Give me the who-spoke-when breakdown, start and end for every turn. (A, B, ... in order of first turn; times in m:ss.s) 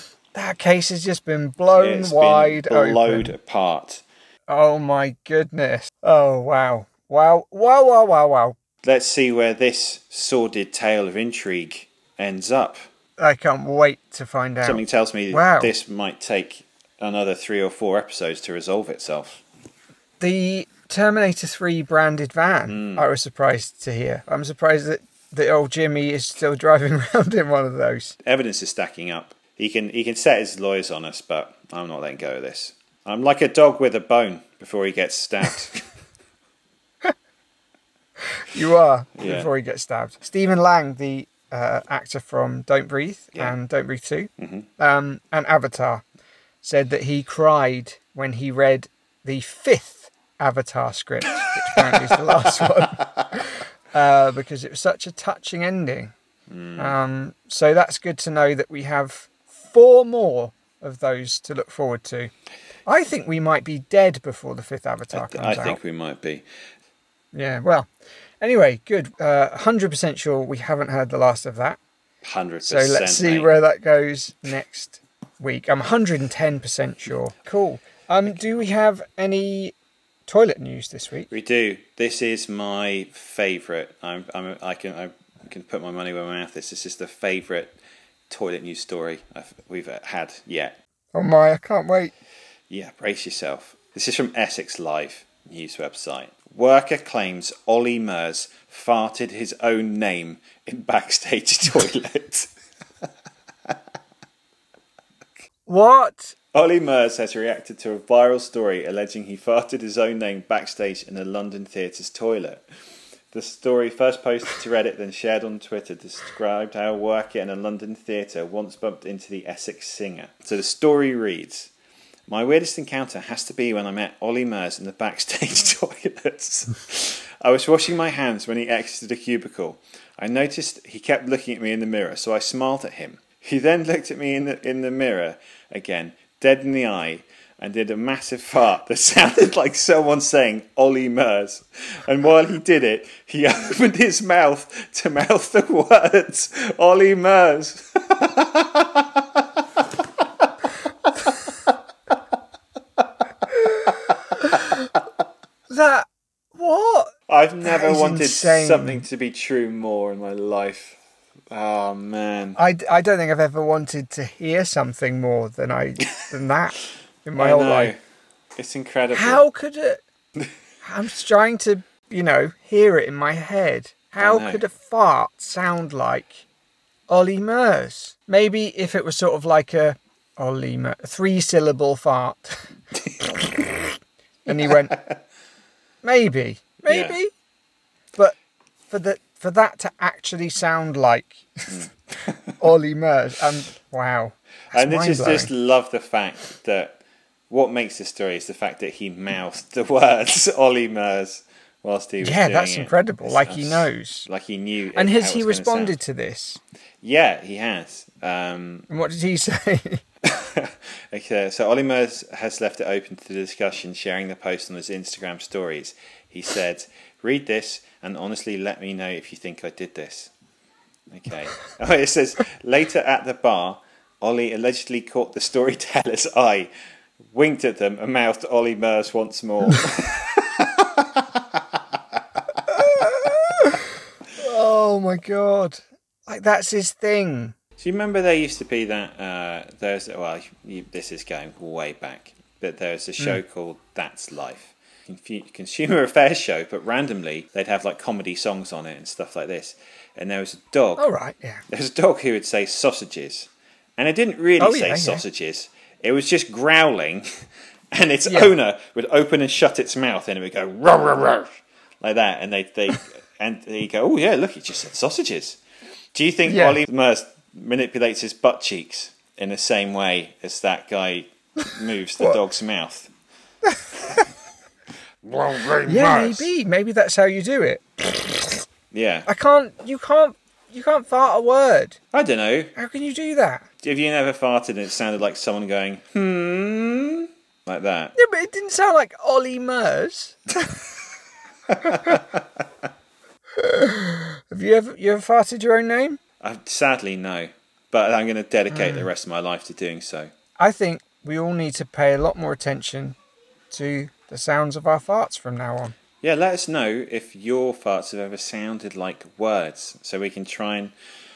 0:00.3-0:03.3 A
0:01.7-0:04.0 B
0:04.5-0:08.6 A
0:08.8-0:12.8 B
0:13.2-0:15.7 A
0:14.6-0:19.4 B
0:20.2-0:28.1 A
0:22.7-0:23.0 B
0:28.2-0:35.8 B
0:38.4-0:46.0 A
0:39.2-0:39.5 B
0:44.4-0:44.6 B
0:46.6-0:56.1 A
0:51.9-0:52.6 B
0:56.5-0:56.9 B
0:56.8-1:02.3 A
1:02.8-1:05.8 A
1:05.1-1:06.4 B
1:07.3-1:07.9 A
1:08.4-1:11.8 A
1:12.2-1:13.5 B
1:12.6-1:19.7 A
1:20.3-1:21.3 A
1:21.3-1:27.8 B
1:28.3-1:30.8 B
1:31.1-1:32.1 A
1:32.7-1:42.5 B
1:45.7-1:46.3 A
1:46.5-1:52.6 B
1:53.3-2:01.7 B
2:02.3-2:29.4 B
2:35.7-2:39.0 A
2:37.3-2:41.0 B
2:41.5-2:42.6 B
2:42.6-2:47.9 A
2:47.4-2:48.0 B
2:48.6-2:49.4 B
2:49.1-2:50.0 A
2:50.8-2:56.4 A
2:54.2-2:54.6 B
2:57.1-3:02.6 A
3:04.4-3:05.0 A
3:04.5-3:05.2 B
3:06.0-3:07.3 A
3:06.8-3:07.2 B
3:08.9-3:11.9 A
3:11.7-3:12.5 B
3:12.6-3:15.5 A
3:14.7-3:26.0 B
3:22.2-3:24.3 A
3:24.9-3:26.6 A
3:27.0-3:28.9 B
3:28.9-3:30.0 A
3:30.2-3:40.3 B
3:41.1-3:46.7 B
3:47.3-3:52.2 B
3:52.8-3:53.8 A
3:54.4-3:57.5 A
3:57.8-4:11.0 B
4:11.0-4:11.6 A
4:11.7-4:17.3 B
4:14.6-4:15.2 A
4:17.9-4:25.6 B
4:18.3-4:18.5 A
4:26.1-4:33.1 B
4:26.5-4:26.8 A
4:35.2-4:36.5 B
4:35.8-4:38.6 A
4:38.9-4:39.3 B
4:39.3-4:42.0 A
4:42.1-4:42.7 B
4:42.7-4:43.7 A
4:43.8-4:48.1 B
4:48.2-4:50.8 A
4:51.7-4:52.4 B
4:53.6-4:56.2 A
4:56.4-5:00.3 B
4:58.7-4:59.0 A
5:00.6-5:03.2 A
5:03.7-5:05.9 A
5:06.2-5:10.9 B